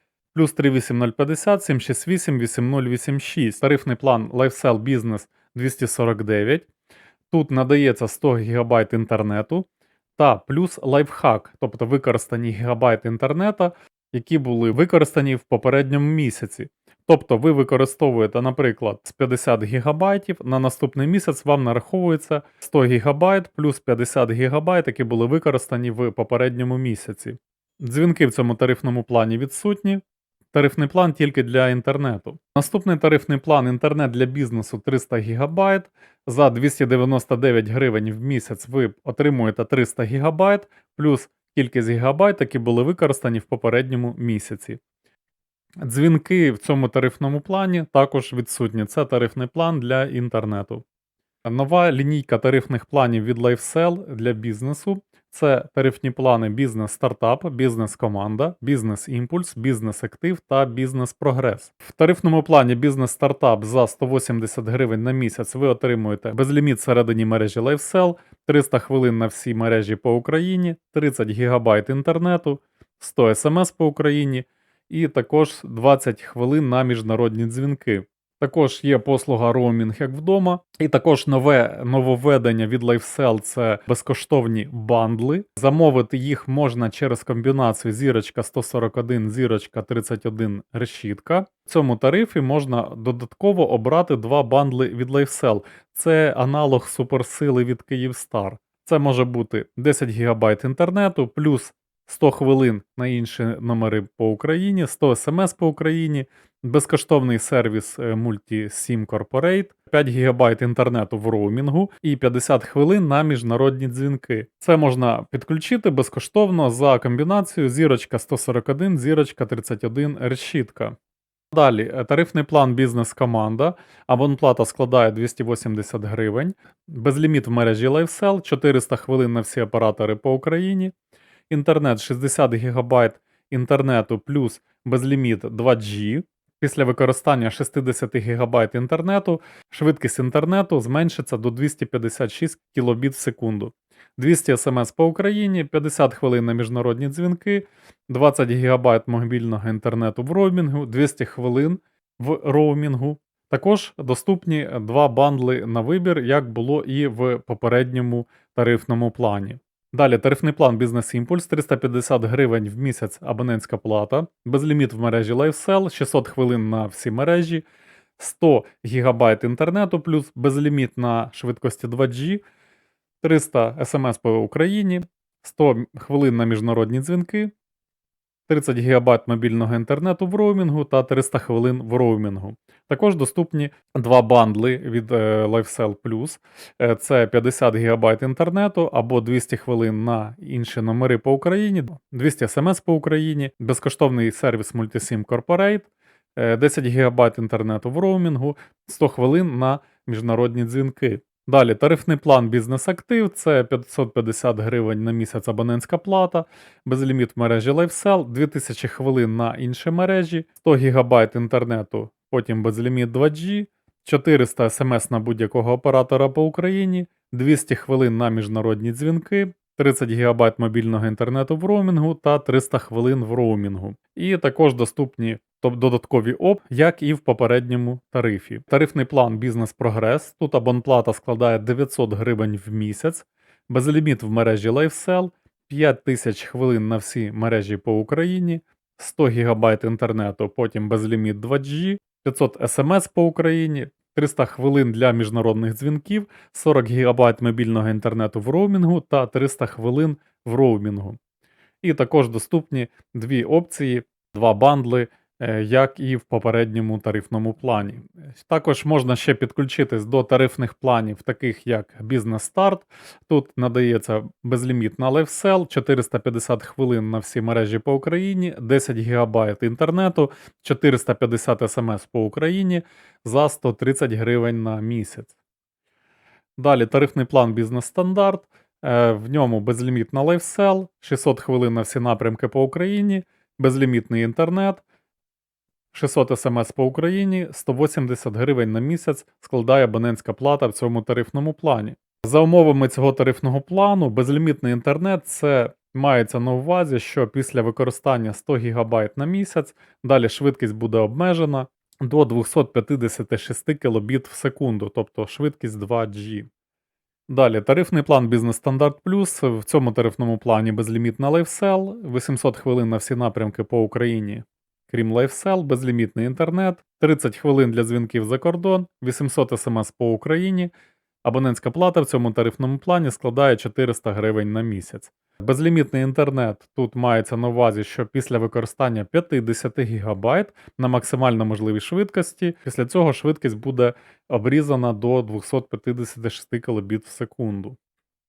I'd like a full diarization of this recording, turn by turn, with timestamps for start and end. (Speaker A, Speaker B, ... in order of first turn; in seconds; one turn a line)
Speaker A: 0.3-6.7
Speaker A: 7.3-44.8
Speaker A: 45.8-50.8
Speaker A: 51.5-120.9
Speaker A: 121.5-130.9
Speaker A: 131.5-167.6
Speaker A: 168.2-172.4
Speaker A: 173.2-177.5
Speaker A: 178.5-251.2
Speaker A: 251.8-275.3
Speaker A: 276.6-284.8
Speaker A: 285.9-306.5
Speaker A: 307.3-320.7
Speaker A: 321.2-337.8